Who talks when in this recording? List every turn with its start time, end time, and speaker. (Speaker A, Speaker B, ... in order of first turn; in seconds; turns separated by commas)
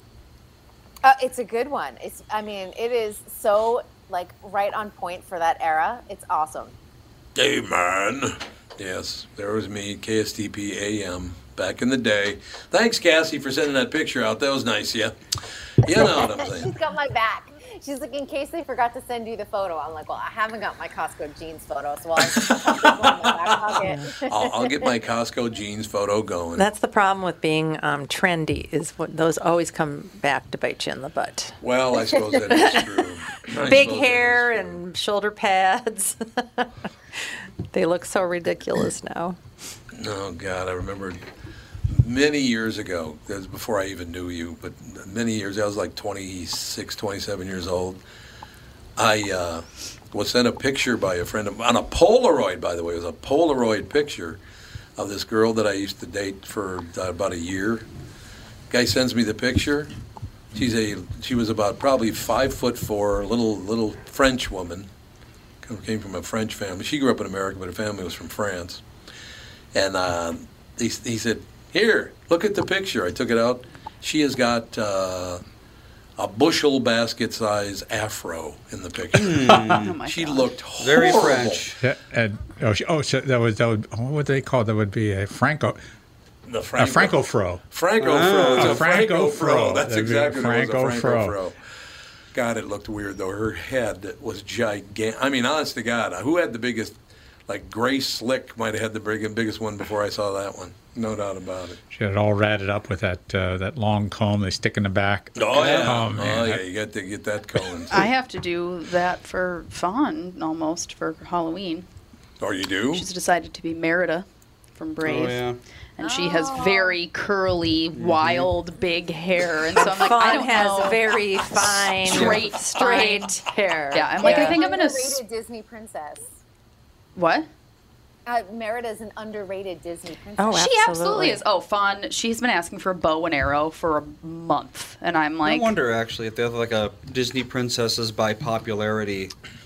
Speaker A: 1.0-6.7, Speaker B: 7.3-15.2, Speaker B: 15.8-16.7, Speaker A: 15.8-24.9, Speaker B: 22.2-26.7, Speaker C: 26.6-31.6, Speaker B: 31.6-34.8, Speaker C: 32.5-32.8, Speaker C: 33.6-36.7, Speaker C: 37.7-39.4, Speaker B: 39.9-41.2, Speaker B: 41.9-48.0, Speaker B: 49.0-54.4, Speaker B: 55.0-57.9, Speaker B: 58.7-59.9, Speaker B: 60.5-64.9, Speaker B: 65.6-68.8, Speaker B: 69.7-75.4, Speaker B: 76.2-81.7, Speaker D: 79.1-80.0, Speaker E: 79.7-80.5, Speaker D: 80.8-81.8, Speaker F: 81.8-85.8, Speaker B: 86.5-87.2, Speaker F: 86.8-87.6, Speaker B: 87.7-91.6, Speaker D: 88.0-88.9, Speaker F: 88.5-91.4, Speaker B: 92.3-97.0, Speaker B: 97.5-101.8, Speaker F: 101.9-106.6, Speaker B: 105.4-108.1, Speaker D: 105.5-106.1, Speaker E: 107.9-111.9, Speaker B: 112.4-113.1, Speaker E: 112.9-115.5, Speaker D: 115.0-115.6, Speaker E: 116.0-121.2, Speaker A: 116.0-117.0, Speaker D: 117.9-118.5, Speaker C: 119.8-124.6, Speaker E: 121.9-123.4, Speaker D: 122.1-122.5, Speaker E: 123.9-125.2, Speaker A: 124.0-126.3, Speaker E: 127.2-127.5, Speaker A: 128.3-130.7, Speaker C: 130.4-131.4, Speaker E: 130.5-135.8, Speaker D: 135.4-139.3